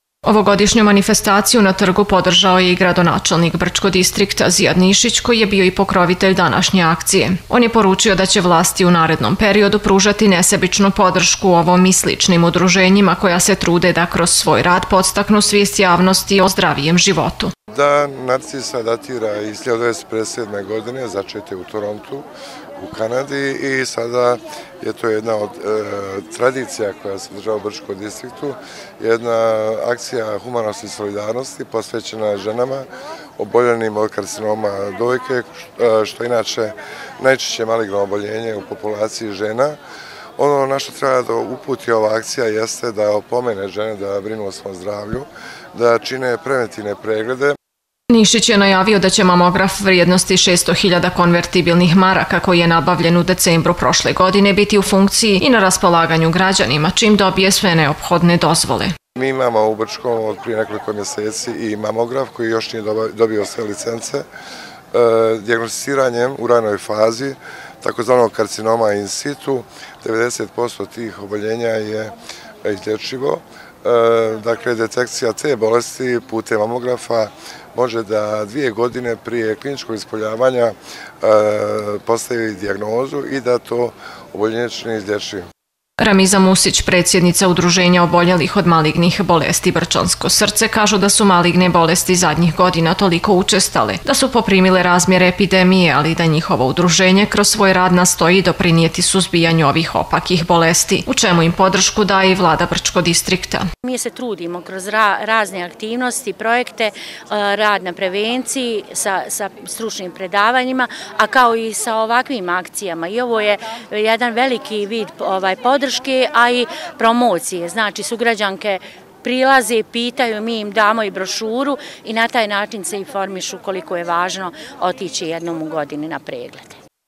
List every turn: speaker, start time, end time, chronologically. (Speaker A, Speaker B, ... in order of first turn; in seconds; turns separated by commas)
Speaker A: 0.2-17.5, Speaker B: 17.7-22.2, Speaker B: 22.8-32.9, Speaker B: 33.4-39.8, Speaker B: 40.4-47.6, Speaker A: 48.1-58.9, Speaker B: 59.1-64.2, Speaker B: 64.9-85.4, Speaker A: 86.0-103.7, Speaker C: 103.8-126.8